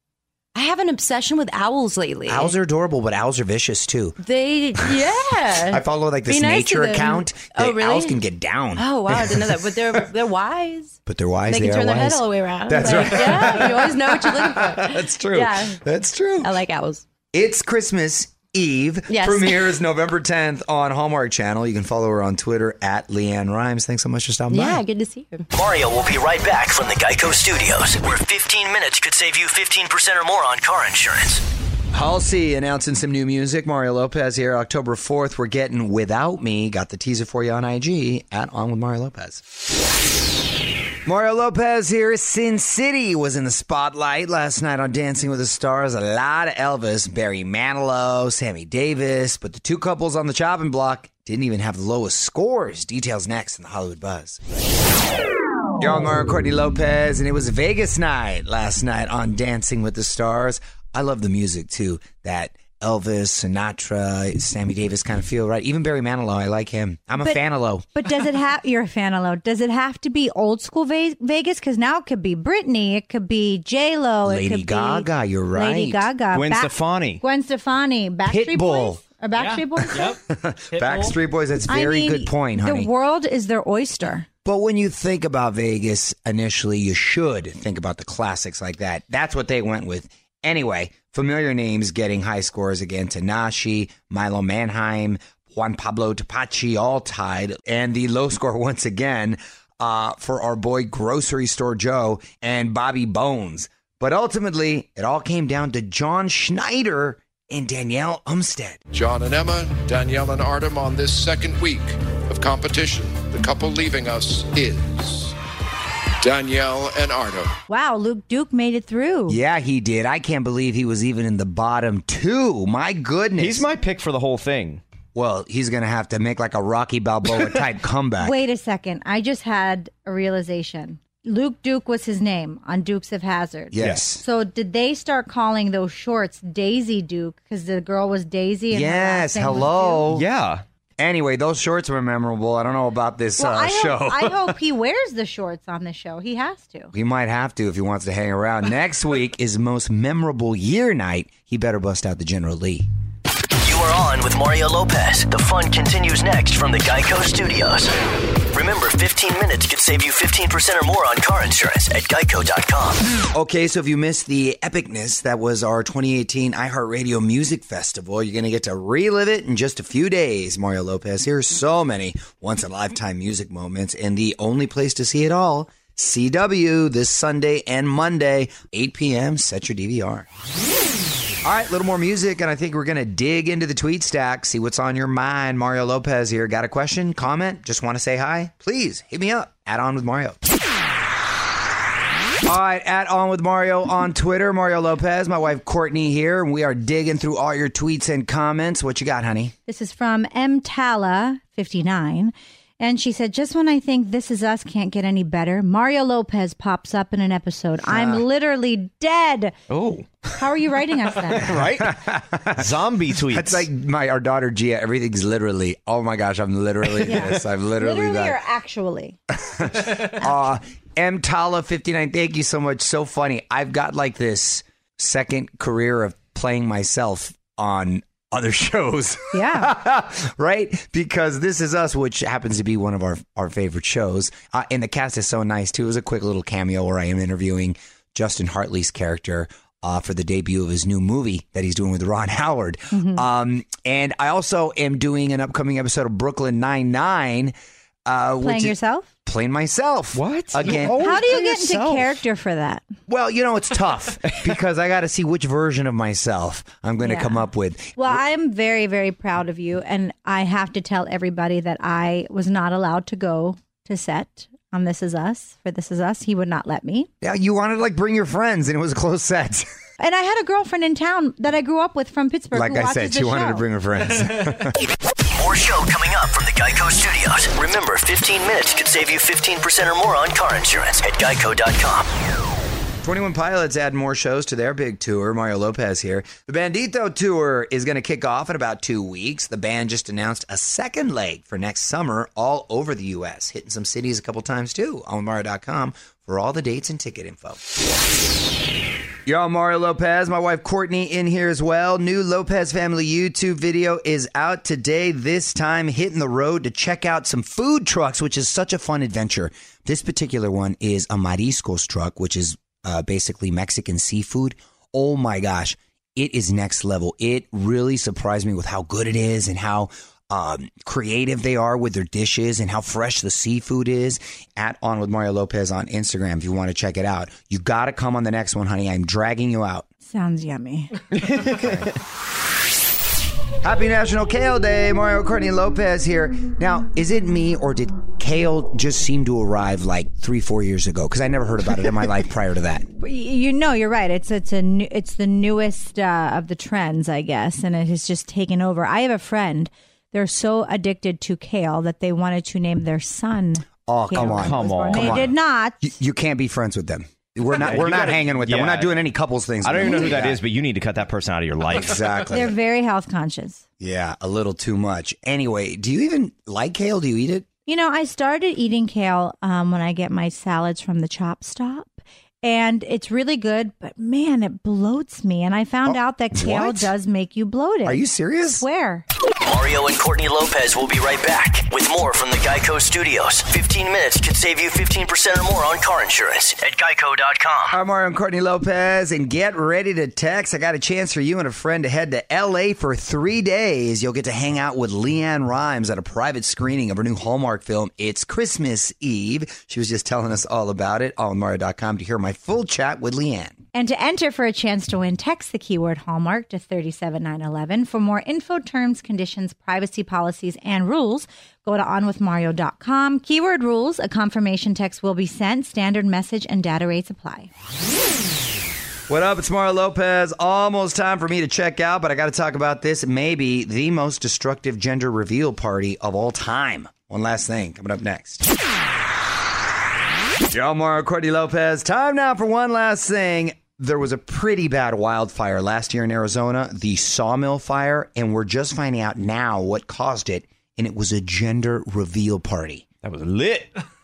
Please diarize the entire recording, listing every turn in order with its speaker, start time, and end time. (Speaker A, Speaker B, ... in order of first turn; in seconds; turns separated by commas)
Speaker A: 0.5-2.5, Speaker B: 2.3-4.2, Speaker A: 4.2-8.2, Speaker B: 4.8-10.1, Speaker A: 8.8-15.8, Speaker B: 11.1-16.5, Speaker A: 16.4-17.1, Speaker B: 17.3-24.8, Speaker A: 19.1-19.8, Speaker A: 24.5-25.5, Speaker C: 25.5-31.4, Speaker B: 31.9-39.4, Speaker B: 41.0-54.4, Speaker B: 55.8-67.9, Speaker D: 68.0-80.2, Speaker B: 74.2-76.1, Speaker E: 76.3-77.2, Speaker B: 78.3-79.0, Speaker B: 79.8-82.9, Speaker D: 81.7-84.3, Speaker B: 84.4-108.8, Speaker F: 108.9-115.4, Speaker F: 116.2-117.6, Speaker D: 117.7-119.4, Speaker B: 119.3-123.7, Speaker E: 123.4-124.8, Speaker B: 125.2-128.4, Speaker D: 128.2-140.1, Speaker B: 133.7-134.2, Speaker E: 133.8-134.1, Speaker B: 138.7-140.3, Speaker E: 140.1-140.6, Speaker B: 141.0-144.6, Speaker D: 143.4-146.9, Speaker B: 146.9-152.9, Speaker C: 153.6-157.9, Speaker C: 158.5-163.1, Speaker B: 163.3-180.3, Speaker B: 181.4-190.4, Speaker B: 192.4-199.6, Speaker D: 199.7-209.6, Speaker B: 207.9-208.2, Speaker E: 209.7-210.1, Speaker D: 210.4-211.6, Speaker E: 211.3-212.0, Speaker B: 211.6-218.4, Speaker E: 212.5-213.7, Speaker D: 217.1-219.2, Speaker B: 219.4-247.5, Speaker D: 229.3-229.7, Speaker D: 242.9-243.2, Speaker B: 248.1-251.1, Speaker D: 248.4-249.1, Speaker E: 250.2-252.1, Speaker D: 250.7-252.8, Speaker B: 253.1-258.2, Speaker D: 257.0-257.4, Speaker D: 258.0-267.1, Speaker B: 267.2-269.7, Speaker D: 270.0-273.6, Speaker B: 272.5-274.8, Speaker C: 275.4-282.1, Speaker B: 283.0-297.6, Speaker B: 299.3-329.9, Speaker D: 330.1-331.0, Speaker E: 331.2-331.9, Speaker B: 333.6-342.9, Speaker D: 343.0-355.9, Speaker B: 353.9-360.4, Speaker E: 354.2-355.3, Speaker E: 357.6-359.0, Speaker E: 359.6-362.0, Speaker B: 361.7-362.5, Speaker D: 362.3-363.6, Speaker B: 363.8-367.5, Speaker D: 367.7-378.1, Speaker B: 375.9-376.9, Speaker B: 377.9-378.6, Speaker D: 378.6-379.1, Speaker C: 379.4-387.8, Speaker B: 387.7-403.6, Speaker D: 403.7-417.5, Speaker B: 419.1-428.5, Speaker B: 430.5-442.9, Speaker E: 443.0-443.7